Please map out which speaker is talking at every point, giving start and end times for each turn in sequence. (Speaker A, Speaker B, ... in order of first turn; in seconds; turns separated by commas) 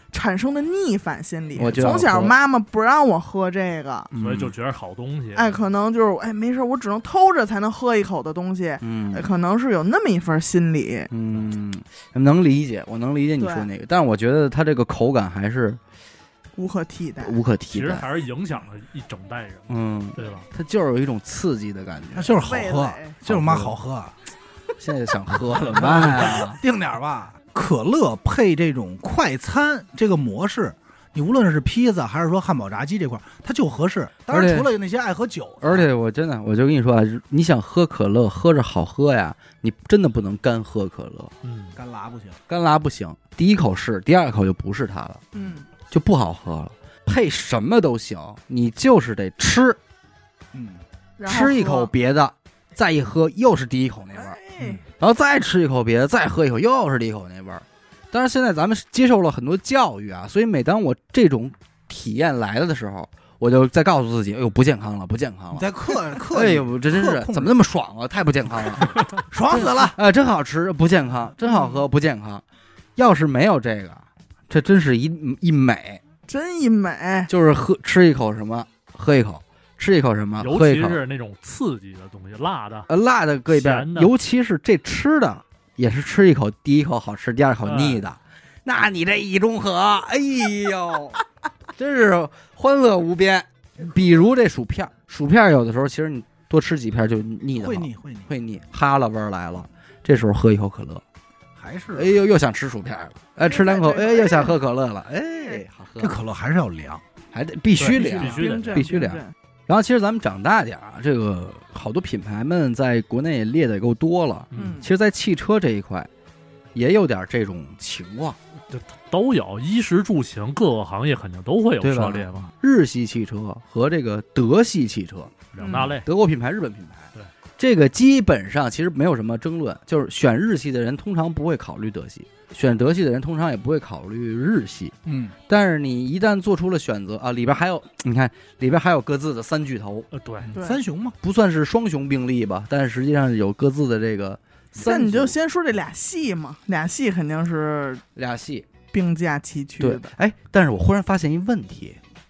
Speaker A: 0.1-4.1, Speaker B: 1.6-2.3, Speaker B: 4.1-4.5, Speaker C: 4.2-5.6, Speaker A: 5.3-11.1, Speaker B: 8.8-9.2, Speaker B: 11.1-15.8, Speaker A: 13.4-13.7, Speaker A: 16.6-17.4, Speaker B: 17.2-18.1, Speaker C: 17.7-20.4, Speaker B: 19.7-22.4, Speaker D: 22.1-24.1, Speaker A: 22.4-23.2, Speaker B: 23.2-23.8, Speaker B: 24.8-26.6, Speaker D: 25.7-35.9, Speaker C: 25.8-26.4, Speaker B: 34.3-34.7, Speaker B: 35.6-41.3, Speaker C: 41.4-41.8, Speaker D: 41.8-42.4, Speaker B: 42.5-45.2, Speaker A: 45.3-45.6, Speaker B: 45.9-49.8, Speaker D: 50.5-50.8, Speaker A: 51.2-51.9, Speaker B: 51.2-54.4, Speaker A: 54.1-54.8, Speaker B: 55.0-72.4, Speaker D: 65.5-67.5, Speaker D: 69.0-70.0, Speaker B: 73.0-76.0, Speaker A: 76.3-77.3, Speaker B: 77.3-81.0, Speaker C: 80.4-82.9, Speaker B: 82.9-91.2, Speaker C: 83.5-84.1, Speaker C: 87.6-88.0, Speaker B: 91.7-101.0, Speaker D: 97.6-98.3, Speaker D: 101.6-102.1, Speaker B: 101.9-106.2, Speaker A: 103.4-104.5, Speaker D: 106.0-107.0, Speaker B: 107.3-116.1, Speaker C: 107.8-108.8, Speaker A: 107.9-109.3, Speaker C: 114.5-114.8, Speaker A: 114.5-114.9, Speaker B: 116.7-118.4, Speaker C: 118.7-122.5, Speaker B: 121.8-134.9, Speaker C: 125.5-126.0, Speaker A: 125.6-126.0, Speaker D: 135.0-135.3, Speaker B: 135.5-140.1, Speaker C: 140.1-140.5, Speaker D: 140.4-141.2, Speaker A: 140.5-140.8, Speaker B: 141.2-145.3, Speaker A: 144.8-148.0, Speaker B: 148.1-148.7, Speaker A: 148.9-150.1, Speaker B: 149.8-152.0